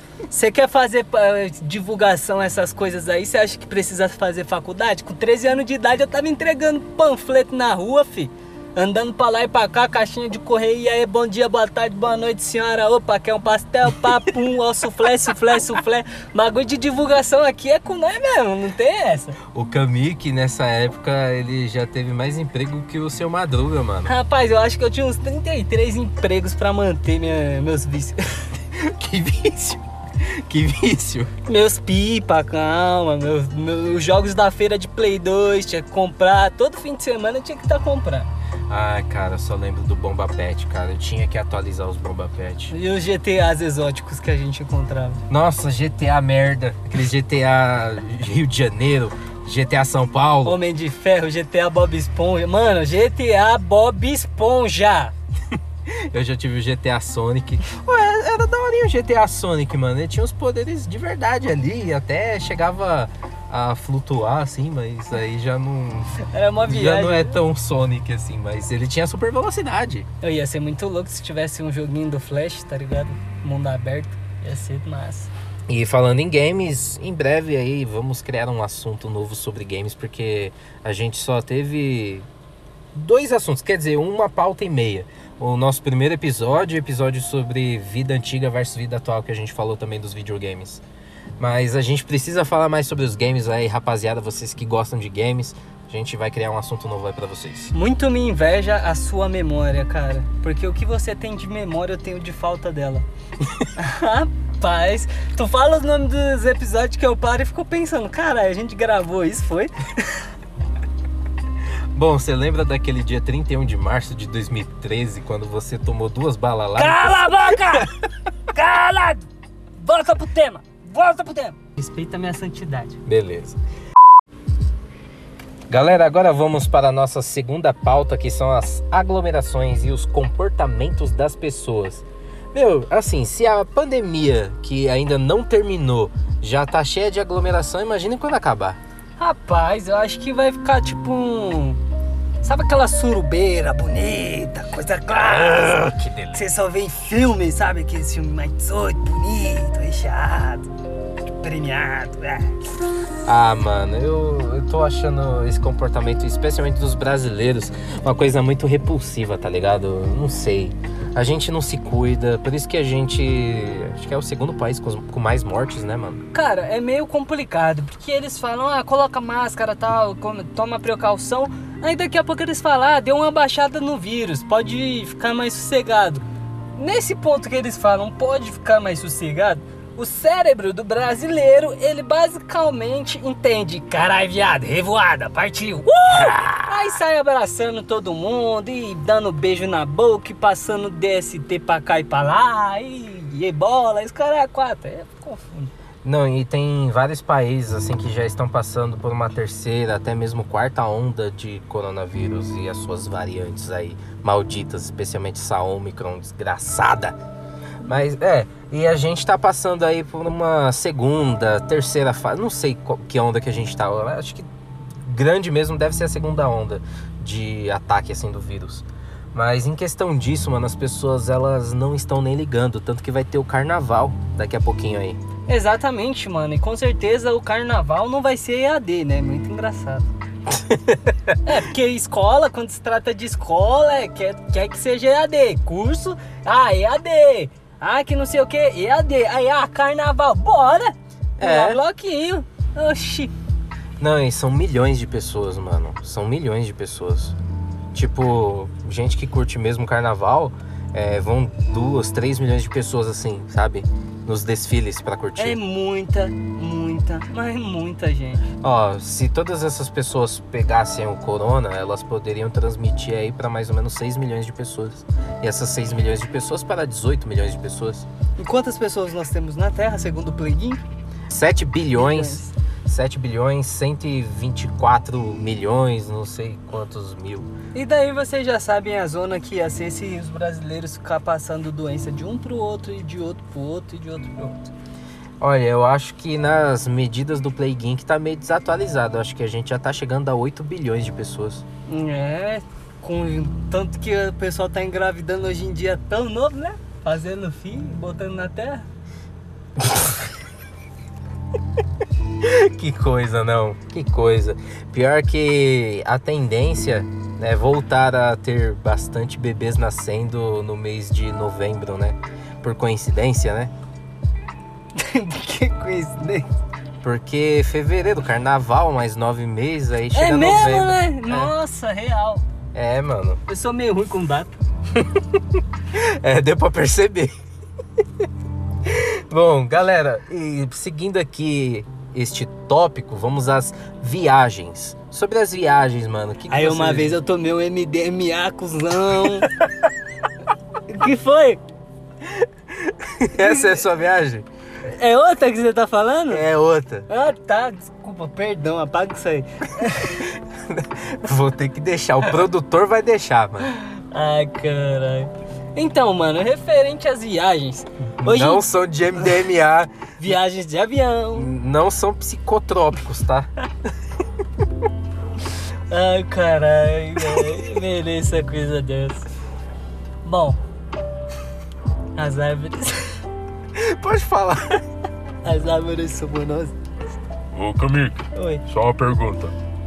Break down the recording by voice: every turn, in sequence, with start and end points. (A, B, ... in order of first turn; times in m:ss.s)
0:00.3-0:19.4 A
0:19.5-0:24.1 B
0:24.0-0:28.2 A
0:28.7-0:31.3 B
0:31.5-0:38.3 A
0:38.7-0:42.7 B
0:42.7-0:45.2 A
0:45.3-0:50.6 B
0:50.4-0:55.1 A
0:55.6-1:10.1 B
1:06.2-1:07.4 A
1:10.2-1:15.3 A
1:15.7-1:22.3 B
1:22.9-1:30.8 B
1:31.4-1:37.7 B
1:37.7-1:43.1 A
1:43.8-1:50.2 A
1:51.9-1:57.9 B
1:56.8-1:57.9 A
1:58.5-2:03.0 A
2:03.1-2:03.6 B
2:05.7-2:18.8 B
2:19.2-2:21.8 A
2:22.4-2:30.7 A
2:25.1-2:26.4 B
2:31.4-2:32.5 A
2:33.2-2:46.2 B
2:46.3-2:56.2 A
2:56.8-3:15.7 A
3:06.1-3:06.9 B
3:16.0-3:27.2 B
3:27.8-3:34.5 B
3:35.0-3:45.2 B
3:45.5-3:50.1 A
3:50.7-3:51.1 B
3:51.4-4:03.3 A
4:01.4-4:01.8 B
4:04.0-4:07.4 B
4:07.9-4:15.6 B
4:15.4-4:18.4 A
4:18.6-4:28.1 B
4:28.4-4:30.8 A
4:31.3-4:37.5 B
4:32.0-4:32.5 A
4:37.7-4:44.7 A
4:45.4-4:51.6 B
4:51.9-4:58.9 A
5:02.4-5:13.7 B
5:15.0-5:16.5 A
5:17.0-5:21.5 B
5:20.1-5:22.4 A
5:22.7-5:23.4 B
5:23.5-5:24.6 A
5:25.0-5:27.3 B
5:28.8-5:37.2 B
5:36.5-5:39.5 A
5:40.9-5:41.6 A
5:42.2-5:44.5 B
5:44.8-5:46.4 A
5:46.3-5:47.1 B
5:47.1-5:50.3 A
5:50.2-5:53.7 B
5:53.7-5:58.6 A
5:58.2-5:59.9 B
6:00.2-6:01.5 A
6:01.4-6:03.5 B
6:05.9-6:09.2 A
6:10.2-6:10.6 A
6:12.2-6:13.2 A
6:13.7-6:14.8 B
6:15.4-6:16.8 A
6:17.5-6:19.5 C
6:18.4-6:18.6 A